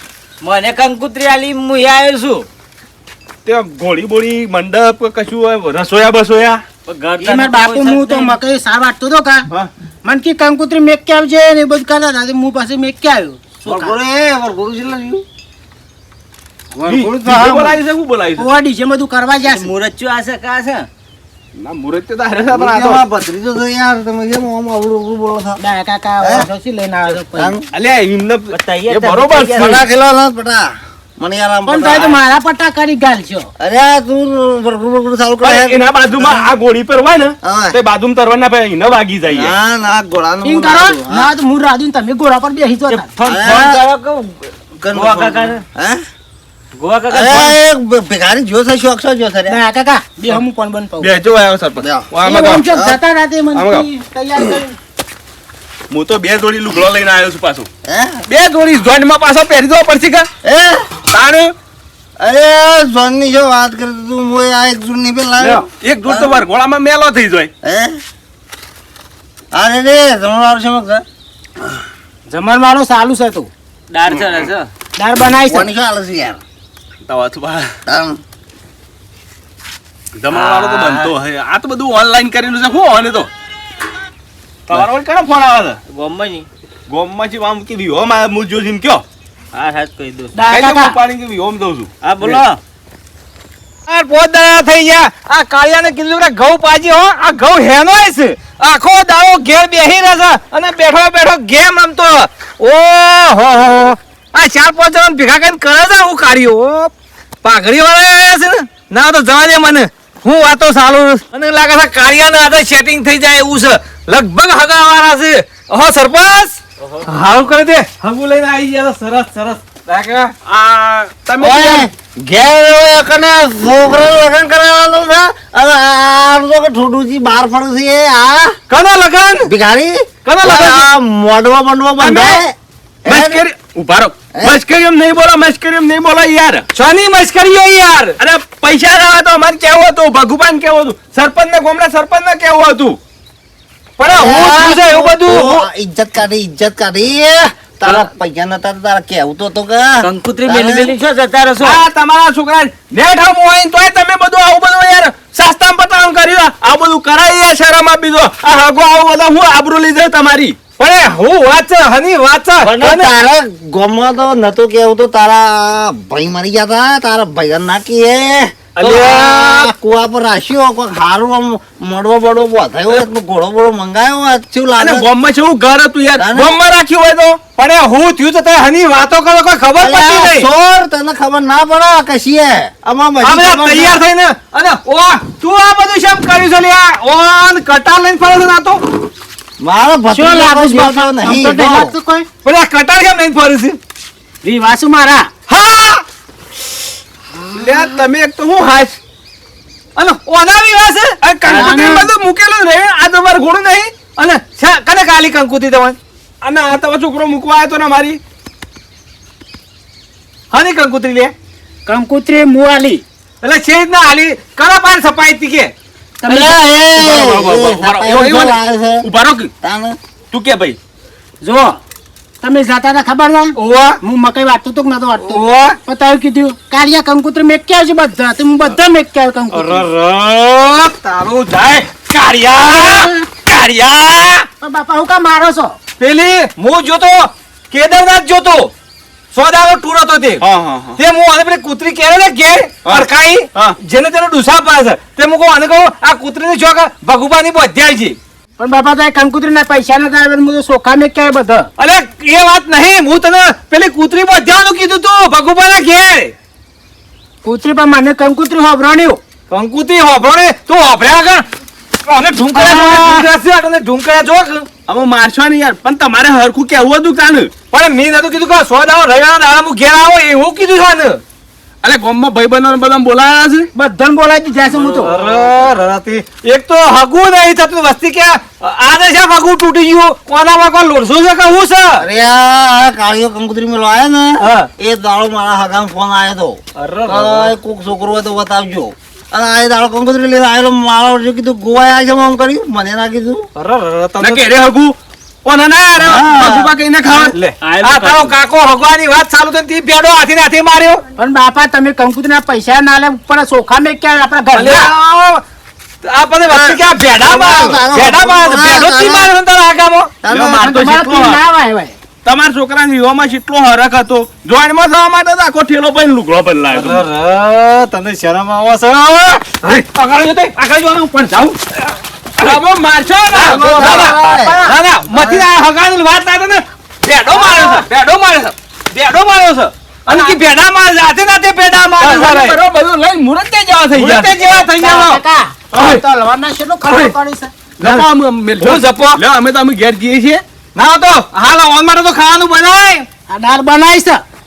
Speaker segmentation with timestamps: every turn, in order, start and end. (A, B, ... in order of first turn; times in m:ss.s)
0:00.4-0:02.5 A
0:03.4-0:06.6 B
0:06.8-0:08.4 A
0:07.2-0:09.4 C
0:10.0-0:14.0 C
0:13.6-0:15.2 D
0:16.8-0:18.5 B
0:17.0-0:17.8 C
0:18.4-0:19.7 C
0:19.4-0:20.9 A
0:21.6-0:23.0 B
0:22.5-0:25.6 D
0:25.6-0:27.5 C
0:26.2-0:26.4 D
0:27.3-0:27.6 D
0:27.7-0:29.8 B
0:28.5-0:29.8 A
0:29.5-0:32.2 D
0:31.7-0:33.5 C
0:33.6-0:36.4 D
0:35.4-0:39.5 B
0:37.4-0:37.8 D
0:39.3-0:41.3 D
0:40.4-0:43.1 C
0:42.9-0:45.6 A
0:43.2-0:43.8 D
0:44.8-0:46.0 D
0:46.7-0:47.6 A
0:47.1-0:49.6 D
0:49.5-0:51.1 C
0:51.0-0:52.6 B
0:51.8-0:52.1 D
0:52.2-0:54.8 C
0:52.7-0:53.0 D
0:53.5-0:53.9 B
0:55.9-0:57.7 B
0:57.8-0:58.2 D
0:58.3-1:00.3 B
1:00.4-1:00.9 D
1:01.1-1:01.5 B
1:02.2-1:06.4 D
1:05.8-1:07.5 B
1:07.6-1:08.0 D
1:09.5-1:11.0 D
1:12.3-1:13.5 C
1:13.9-1:14.7 A
1:14.1-1:14.5 B
1:15.0-1:15.7 C
1:15.4-1:16.4 D
1:17.0-1:17.7 B
1:17.9-1:18.2 D
1:20.2-1:23.3 B
1:20.3-1:21.2 A
1:24.7-1:25.8 B
1:25.9-1:26.5 A
1:26.9-1:29.0 B
1:29.5-1:30.4 A
1:30.3-1:31.0 C
1:30.5-1:32.4 B
1:32.0-1:32.6 A
1:33.9-1:46.9 E
1:47.4-2:00.3 E
1:56.8-1:57.1 A
2:00.4-2:01.9 B
2:01.4-2:08.5 D
2:08.7-2:09.5 E
2:09.4-2:12.5 D
2:10.3-2:10.8 E
2:10.4-2:10.8 B
2:12.0-2:12.4 B
2:13.0-2:13.4 D
2:13.0-2:16.6 B
2:14.3-2:14.6 D
2:16.7-2:18.2 E
2:18.2-2:23.0 B
2:24.0-2:25.6 E
2:24.1-2:30.9 D
2:30.0-2:31.8 A
2:31.6-2:40.6 B
2:40.8-2:43.1 E
2:42.6-2:55.1 D
2:48.8-2:49.5 B
2:54.8-2:57.3 B
2:56.2-2:56.6 D
2:56.4-3:00.5 E
2:59.8-3:04.0 D
3:03.2-3:08.8 E
3:09.6-3:11.9 D
3:10.1-3:12.3 C
3:12.4-3:13.8 E
3:14.4-3:15.3 C
3:15.5-3:16.0 E
3:17.5-3:19.0 B
3:20.0-3:22.0 E
3:21.2-3:24.0 B
3:21.5-3:22.1 C
3:24.1-3:26.0 E
3:26.4-3:28.2 B
3:30.5-3:31.3 E
3:31.8-3:33.0 C
3:33.4-3:35.7 E
3:36.2-3:36.6 C
3:36.2-3:39.1 D
3:37.0-3:39.5 B
3:39.6-3:40.0 D
3:40.3-3:40.8 B
3:41.4-3:41.8 C
3:42.4-3:49.9 C
3:43.6-3:44.0 E
3:45.2-3:45.8 E
3:49.5-3:54.4 E
3:52.6-3:53.2 C
3:54.6-3:55.8 C
3:56.0-3:58.7 E
3:59.3-4:00.4 E
4:00.4-4:01.0 B
4:01.0-4:08.2 E
4:02.8-4:03.8 B
4:08.6-4:11.7 C
4:11.8-4:16.3 E
4:17.4-4:19.2 C
4:19.5-4:21.5 E
4:22.0-4:24.7 E
4:22.5-4:23.2 C
4:24.9-4:27.5 B
4:27.7-4:31.2 E
4:31.8-4:33.7 B
4:33.7-4:35.1 C
4:34.8-4:42.0 E
4:35.2-4:35.7 A
4:42.0-4:53.4 D
4:44.4-4:44.7 E
4:46.8-4:47.5 E
4:53.6-4:54.4 E
4:54.2-4:58.1 B
4:56.0-4:56.7 D
4:57.3-5:01.0 E
4:57.6-4:58.3 A
5:01.2-5:04.9 C
5:04.5-5:05.4 E
5:06.0-5:10.1 E
5:06.5-5:09.3 D
5:10.2-5:10.7 D
5:10.2-5:11.4 B
5:10.6-5:11.9 C
5:12.2-5:17.1 B
5:16.8-5:17.9 E
5:17.3-5:18.6 A
5:18.4-5:21.5 E
5:22.4-5:24.1 B
5:23.2-5:32.6 E
5:23.4-5:24.6 D
5:23.6-5:24.8 C
5:27.4-5:27.8 C
5:32.0-5:34.4 B
5:33.9-5:35.2 E
5:34.4-5:37.5 C
5:35.7-5:36.0 B
5:36.9-5:37.1 B
5:37.8-5:40.4 B
5:38.6-5:39.2 E
5:40.8-5:43.0 E
5:43.3-5:44.2 C